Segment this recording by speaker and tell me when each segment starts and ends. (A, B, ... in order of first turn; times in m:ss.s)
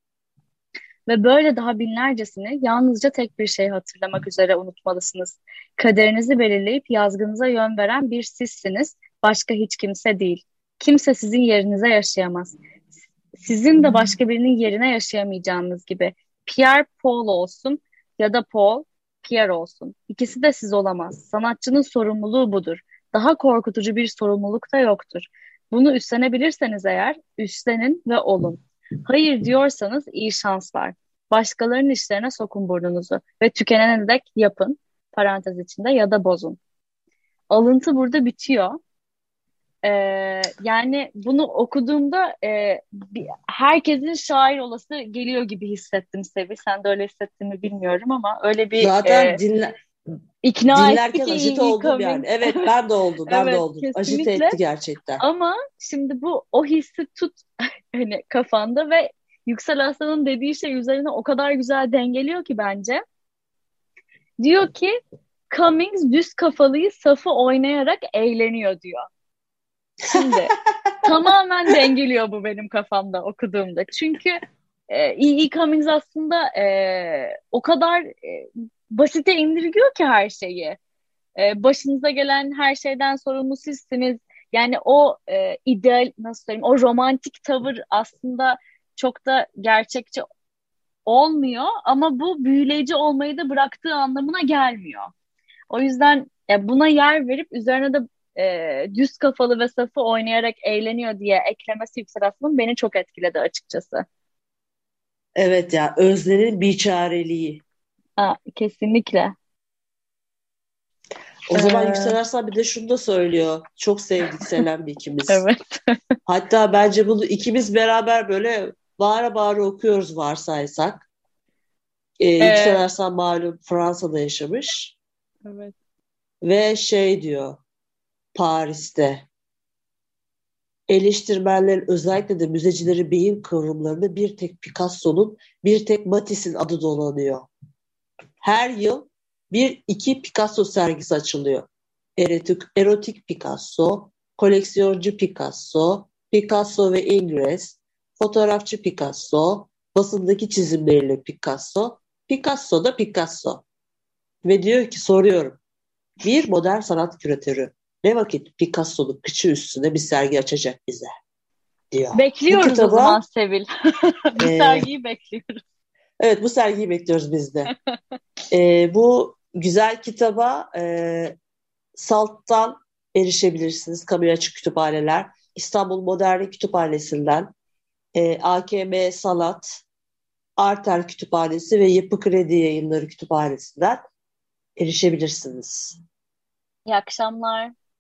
0:01.1-0:12.6 A
0:13.4-0:36.6 A
0:37.5-0:38.8 A
0:39.8-0:49.4 A
0:48.8-0:49.7 B
0:50.4-0:52.6 A
0:50.7-0:55.2 B
0:53.3-0:54.6 A
0:55.2-0:57.4 A
0:57.9-1:03.0 A
1:04.4-1:04.9 A
1:05.5-1:09.1 A
1:10.1-1:20.8 A
1:21.4-1:30.2 A
1:31.1-1:35.1 A
1:35.7-1:44.0 A
1:45.4-1:47.6 B
1:48.2-1:49.3 A
1:51.5-1:55.4 B
1:51.5-1:52.2 A
1:55.3-1:55.9 A
1:56.3-2:01.1 B
2:02.2-2:05.0 B
2:02.4-2:02.8 A
2:05.4-2:05.7 A
2:06.4-2:07.6 B
2:08.4-2:09.3 B
2:10.9-2:17.5 B
2:18.4-2:33.6 B
2:34.4-2:35.6 B
2:36.2-2:41.1 B
2:41.9-2:43.2 B
2:42.2-2:43.7 A
2:44.3-2:45.6 A
2:44.4-2:44.9 B
2:46.2-2:47.7 B
2:48.5-2:51.4 B
2:52.0-2:57.5 B
2:58.2-2:59.8 B
3:00.6-3:04.0 B
3:04.8-3:06.0 B
3:06.9-3:07.7 A